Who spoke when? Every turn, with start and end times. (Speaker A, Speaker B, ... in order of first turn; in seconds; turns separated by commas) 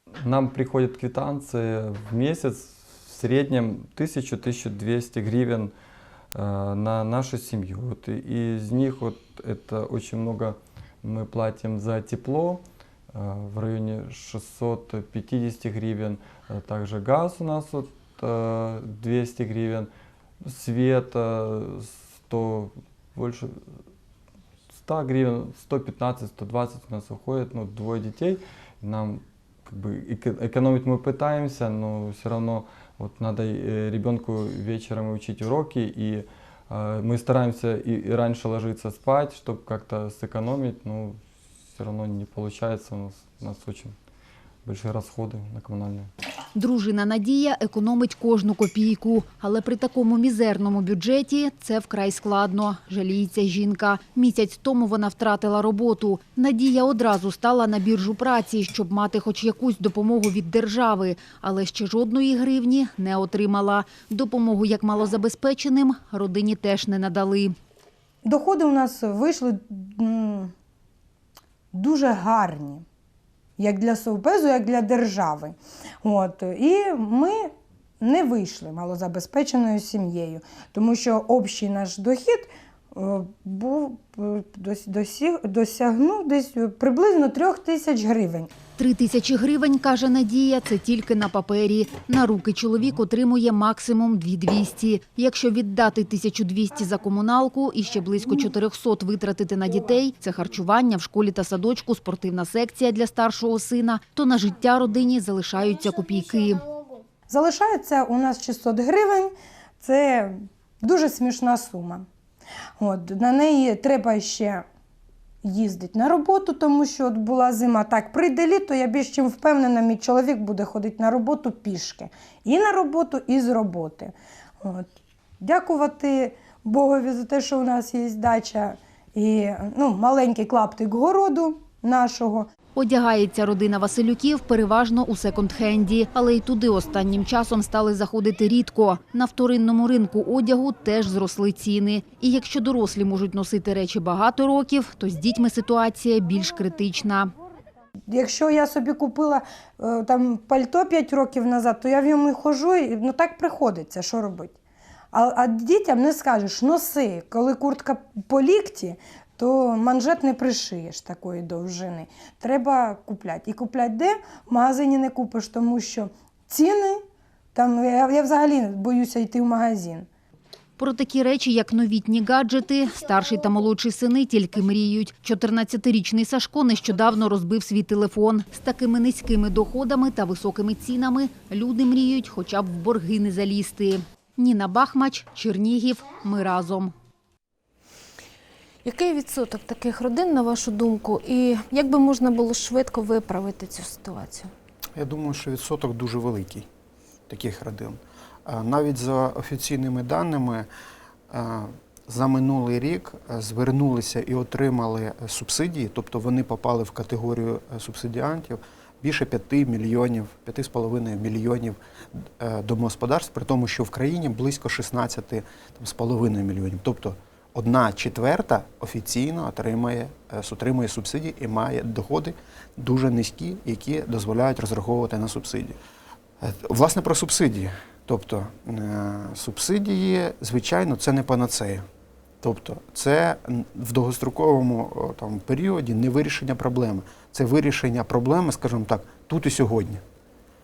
Speaker A: 0.2-5.7, Speaker A: 6.3-19.9, Speaker A: 20.4-23.6, Speaker A: 24.7-43.9, Speaker A: 44.6-46.1, Speaker B: 46.5-67.5, Speaker C: 68.2-70.5, Speaker C: 71.7-72.8, Speaker C: 73.6-88.5, Speaker B: 88.8-106.8, Speaker C: 107.3-112.0, Speaker C: 112.8-114.6, Speaker C: 115.4-132.5, Speaker B: 132.7-147.3, Speaker C: 148.1-154.5, Speaker C: 155.1-167.0, Speaker C: 167.5-170.1, Speaker B: 170.8-186.9, Speaker D: 188.8-194.5, Speaker E: 194.9-196.7, Speaker E: 197.3-200.7, Speaker E: 201.3-225.8, Speaker E: 226.4-231.8, Speaker E: 232.4-240.0